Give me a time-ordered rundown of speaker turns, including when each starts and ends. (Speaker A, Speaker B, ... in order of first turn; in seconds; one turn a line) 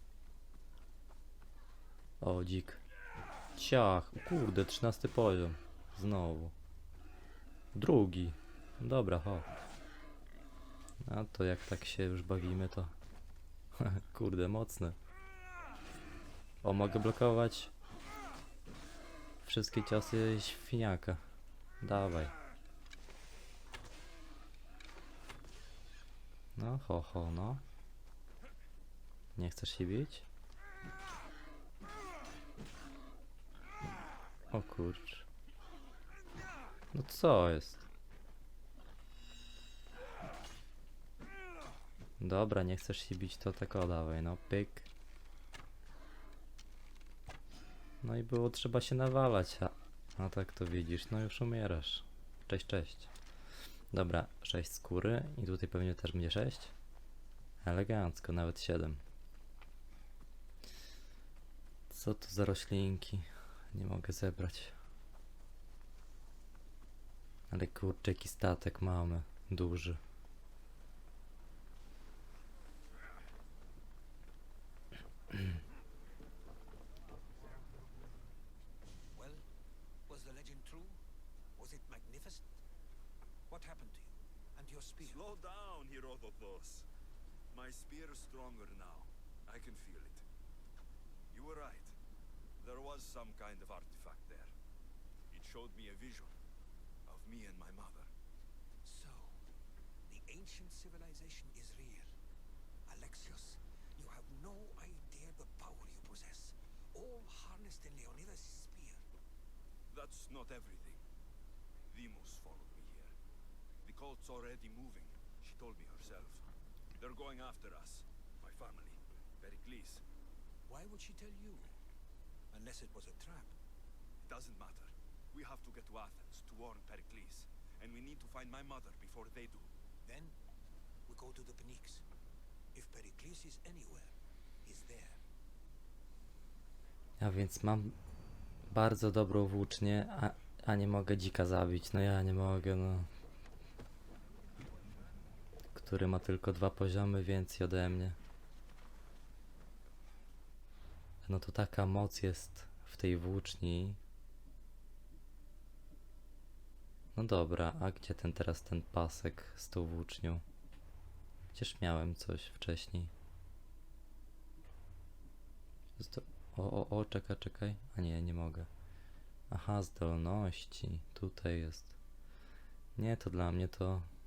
Speaker A: 2.2-2.8
Speaker A: 3.5-6.5
Speaker A: 7.7-9.5
Speaker A: 11.0-12.9
Speaker A: 13.8-15.0
Speaker A: 16.6-17.7
Speaker A: 19.4-21.2
Speaker A: 21.8-22.3
Speaker A: 26.6-27.6
Speaker A: 29.4-30.3
Speaker A: 34.5-35.3
Speaker A: 36.9-37.9
Speaker A: 42.2-44.9
Speaker A: 48.0-53.1
Speaker A: 53.9-56.7
Speaker A: 57.6-59.0
Speaker A: 61.9-64.7
Speaker A: 67.5-70.0
Speaker B: 79.1-79.5
Speaker B: 80.1-81.0
Speaker B: 81.6-82.6
Speaker B: 83.5-85.4
Speaker C: 85.0-86.9
Speaker C: 87.5-90.2
Speaker C: 91.3-92.0
Speaker C: 92.6-94.5
Speaker C: 95.3-96.4
Speaker C: 97.1-98.1
Speaker B: 98.8-99.5
Speaker B: 100.1-102.2
Speaker B: 102.9-109.0
Speaker C: 109.9-111.0
Speaker C: 111.9-113.1
Speaker C: 113.8-120.0
Speaker B: 120.7-121.8
Speaker B: 122.5-123.5
Speaker C: 124.2-129.7
Speaker B: 130.0-130.4
Speaker B: 131.1-132.1
Speaker B: 132.7-135.2
Speaker A: 137.2-138.0
Speaker A: 138.7-143.1
Speaker A: 145.7-148.2
Speaker A: 151.2-154.0
Speaker A: 157.1-160.4
Speaker A: 161.5-163.1
Speaker A: 166.0-168.7
Speaker A: 169.5-172.0
Speaker A: 173.0-174.1